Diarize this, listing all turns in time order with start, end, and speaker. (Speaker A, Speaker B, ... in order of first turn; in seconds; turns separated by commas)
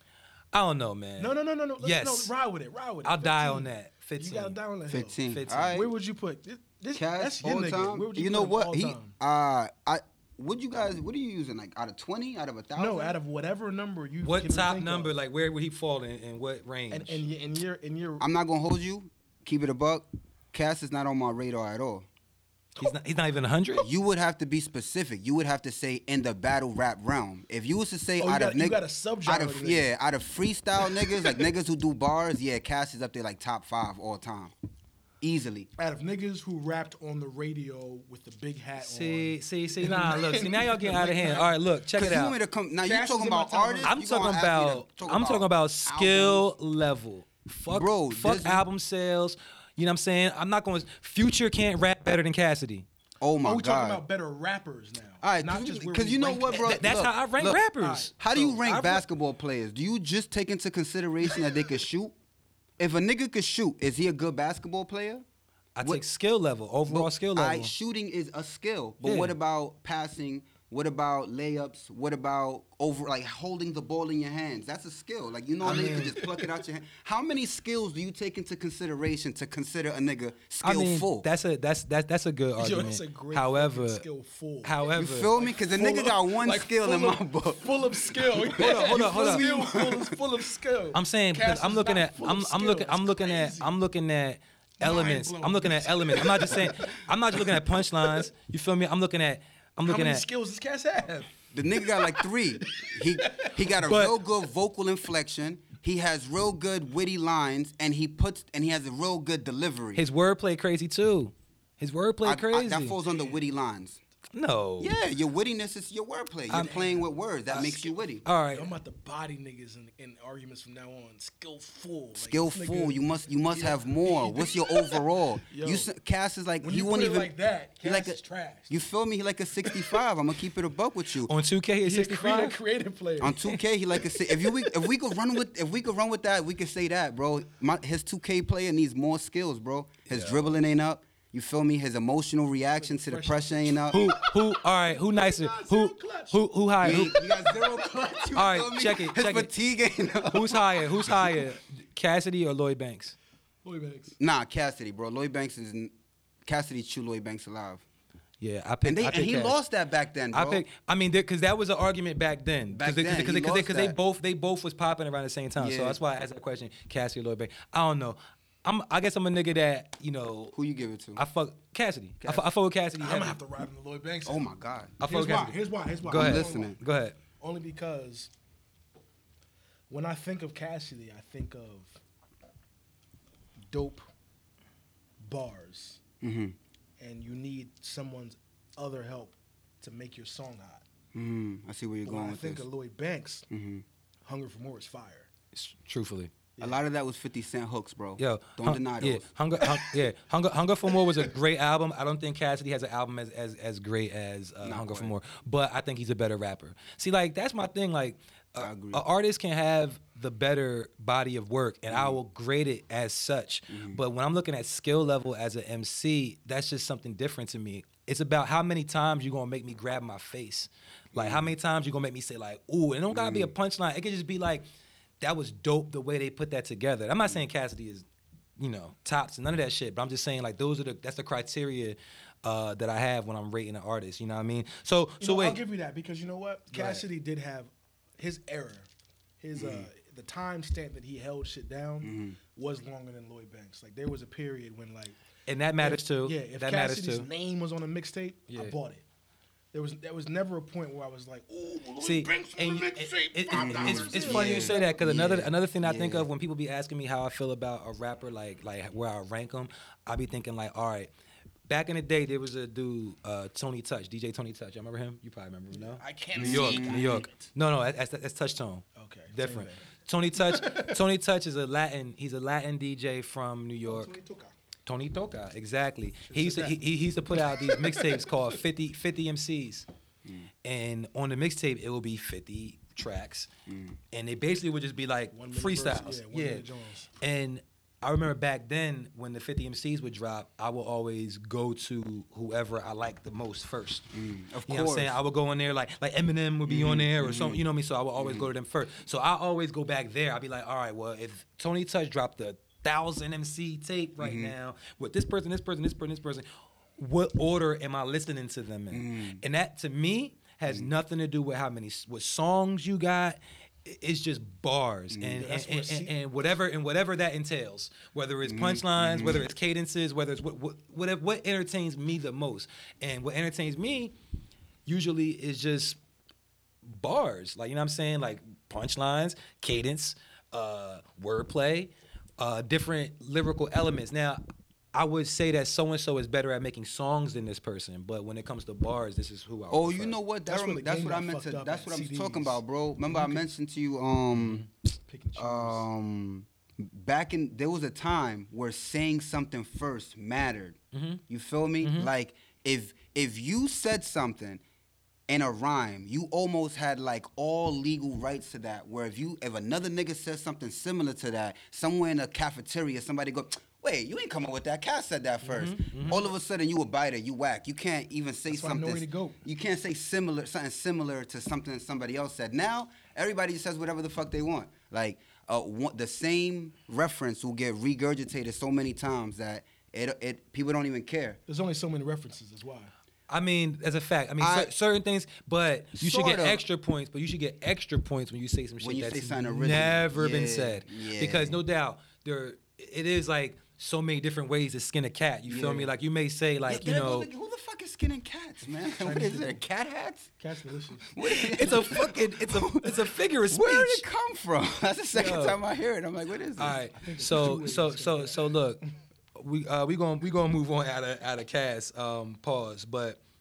Speaker A: 0.5-2.3, Speaker B: 1.2-9.2, Speaker A: 3.0-4.5, Speaker C: 4.9-5.9, Speaker A: 5.3-5.8, Speaker C: 6.9-13.2, Speaker B: 12.8-15.1, Speaker A: 14.2-17.2, Speaker B: 16.9-18.2, Speaker C: 18.2-22.1, Speaker A: 22.8-23.9, Speaker C: 23.8-34.5, Speaker B: 28.2-29.9, Speaker B: 31.0-31.4, Speaker C: 35.2-35.7, Speaker B: 35.8-41.5, Speaker A: 38.8-42.4, Speaker C: 41.9-46.5, Speaker B: 42.8-44.0, Speaker A: 43.9-52.9, Speaker C: 47.7-48.6, Speaker C: 53.2-54.0, Speaker B: 53.4-57.0, Speaker C: 55.2-57.6, Speaker A: 56.5-59.0, Speaker B: 57.8-58.6, Speaker C: 58.2-62.1, Speaker C: 62.8-65.2, Speaker A: 65.8-67.7, Speaker C: 66.9-81.3, Speaker A: 69.0-69.3, Speaker A: 75.6-76.2, Speaker B: 75.7-76.5, Speaker A: 80.6-84.0, Speaker B: 82.6-93.7, Speaker A: 84.6-85.3, Speaker C: 84.9-90.2, Speaker A: 88.6-89.5, Speaker A: 90.9-100.2, Speaker B: 94.8-97.6, Speaker B: 99.8-101.3, Speaker C: 101.5-110.0, Speaker B: 101.9-103.7, Speaker A: 103.8-104.1, Speaker A: 110.0-113.0, Speaker C: 112.2-114.0, Speaker A: 114.3-114.9, Speaker C: 114.8-118.2, Speaker B: 116.5-118.0, Speaker A: 117.5-118.7, Speaker B: 118.5-125.9, Speaker C: 122.2-131.3, Speaker B: 126.6-128.8, Speaker B: 129.6-129.9, Speaker A: 131.3-132.6, Speaker B: 131.8-134.7, Speaker C: 133.2-144.0, Speaker A: 140.1-140.5, Speaker B: 142.8-148.3, Speaker A: 143.9-147.2, Speaker C: 146.8-150.8, Speaker A: 148.3-149.5, Speaker A: 150.3-153.1, Speaker B: 153.6-154.2, Speaker C: 154.2-155.9, Speaker C: 156.4-157.8, Speaker A: 158.4-159.6, Speaker C: 158.8-160.6, Speaker A: 160.3-170.5, Speaker C: 162.7-164.0, Speaker C: 165.6-166.0, Speaker C: 170.5-171.2, Speaker A: 171.2-173.4, Speaker C: 172.2-172.4, Speaker B: 172.9-174.5, Speaker C: 174.2-175.0, Speaker A: 175.0-177.2, Speaker B: 175.0-176.8, Speaker C: 176.1-176.8, Speaker B: 177.4-178.3, Speaker B: 179.9-182.0, Speaker B: 183.7-184.1, Speaker B: 185.2-186.0, Speaker C: 186.2-186.6, Speaker B: 187.0-190.8, Speaker C: 191.1-192.6, Speaker B: 192.0-193.4, Speaker C: 193.5-193.8, Speaker B: 194.2-195.3, Speaker A: 195.5-196.3, Speaker C: 196.6-199.3, Speaker A: 198.2-224.7, Speaker C: 204.6-205.1, Speaker C: 208.6-209.0, Speaker C: 211.9-212.2, Speaker C: 213.7-214.0, Speaker C: 221.1-221.5, Speaker C: 223.1-223.5, Speaker A: 225.2-228.0, Speaker A: 228.6-235.6, Speaker B: 235.2-238.9, Speaker A: 236.7-237.0, Speaker B: 239.4-245.2, Speaker C: 239.6-239.9, Speaker C: 242.0-242.4, Speaker A: 245.5-247.3, Speaker B: 245.8-249.0, Speaker A: 248.5-248.7, Speaker B: 249.7-255.0, Speaker A: 252.0-261.1, Speaker C: 253.5-256.3, Speaker A: 261.7-274.1, Speaker B: 265.7-267.5, Speaker C: 266.3-267.2, Speaker B: 268.9-271.0, Speaker B: 273.8-274.5, Speaker A: 274.9-279.9, Speaker B: 276.3-278.5, Speaker A: 280.6-283.5, Speaker C: 283.7-284.0, Speaker A: 284.1-286.6, Speaker B: 285.3-287.1, Speaker A: 287.2-294.1, Speaker C: 294.1-295.2, Speaker A: 294.6-324.1, Speaker C: 296.6-297.6, Speaker C: 298.2-298.5, Speaker C: 304.2-304.5, Speaker C: 308.9-309.4, Speaker C: 315.1-315.4, Speaker B: 315.4-316.1, Speaker C: 318.4-319.5, Speaker A: 324.9-326.0, Speaker A: 326.8-334.4, Speaker A: 334.9-340.2, Speaker C: 339.7-344.7, Speaker B: 340.4-343.4, Speaker A: 344.3-344.6, Speaker B: 345.1-345.8, Speaker C: 345.4-354.6, Speaker A: 350.9-351.2, Speaker A: 351.8-352.1, Speaker C: 355.3-381.4, Speaker A: 365.4-366.3, Speaker B: 368.5-369.4, Speaker B: 381.5-382.9, Speaker A: 383.3-397.3, Speaker C: 384.4-384.7, Speaker C: 385.9-386.6, Speaker C: 388.8-391.6, Speaker C: 395.5-395.9, Speaker C: 396.7-400.3, Speaker B: 398.9-399.6, Speaker B: 400.4-401.2, Speaker C: 401.1-406.8, Speaker A: 401.2-404.0, Speaker A: 405.1-405.6, Speaker A: 406.6-408.8, Speaker B: 406.9-408.4, Speaker A: 409.4-413.2